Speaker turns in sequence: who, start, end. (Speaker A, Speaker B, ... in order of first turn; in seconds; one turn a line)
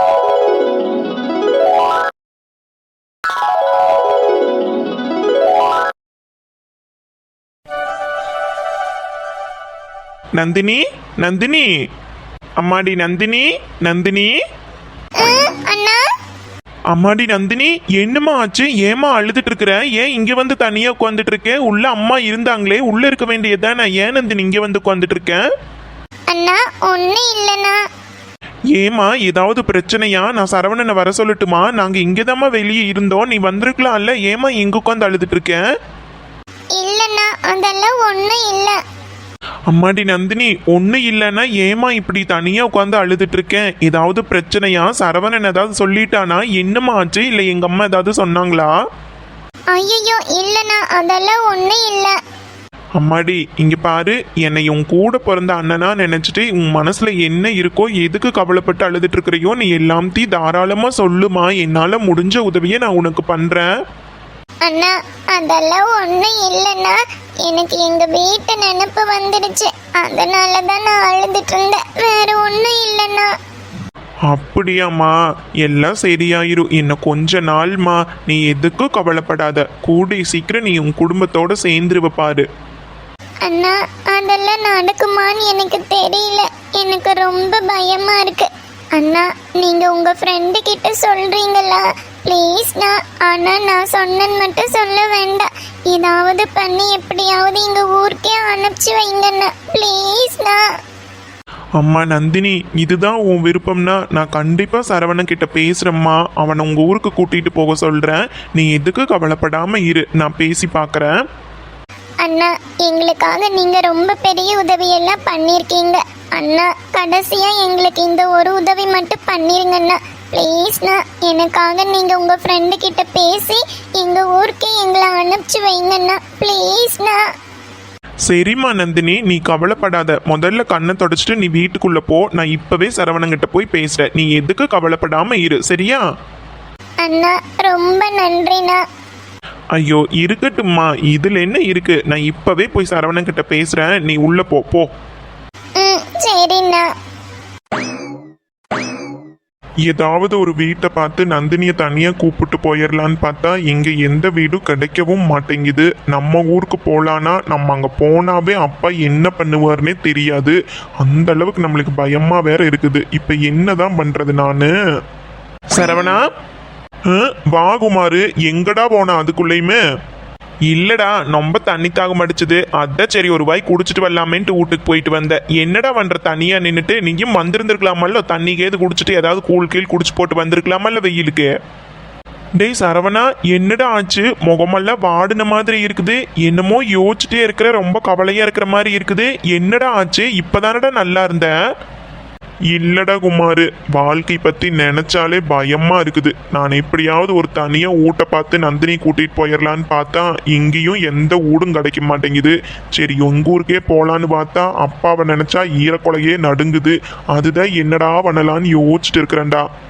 Speaker A: 10.3-11.7
Speaker A: 12.6-14.3
Speaker B: 15.2-16.0
Speaker A: 16.9-25.4
Speaker B: 26.3-27.8
Speaker A: 28.7-35.6
Speaker B: 36.8-38.8
Speaker A: 39.7-48.7
Speaker B: 49.7-52.1
Speaker A: 53.0-63.7
Speaker B: 64.6-73.3
Speaker A: 74.3-82.4
Speaker B: 83.4-100.6
Speaker A: 101.8-111.1
Speaker B: 112.2-127.2
Speaker A: 128.3-136.0
Speaker B: 137.0-138.8
Speaker A: 139.7-144.9
Speaker B: 145.8-146.9
Speaker A: 149.8-164.7
Speaker A: 165.7-166.2
Speaker A: 167.1-169.8
Speaker A: 170.7-181.5
Speaker A: 182.6-191.5
Speaker A: 192.7-209.7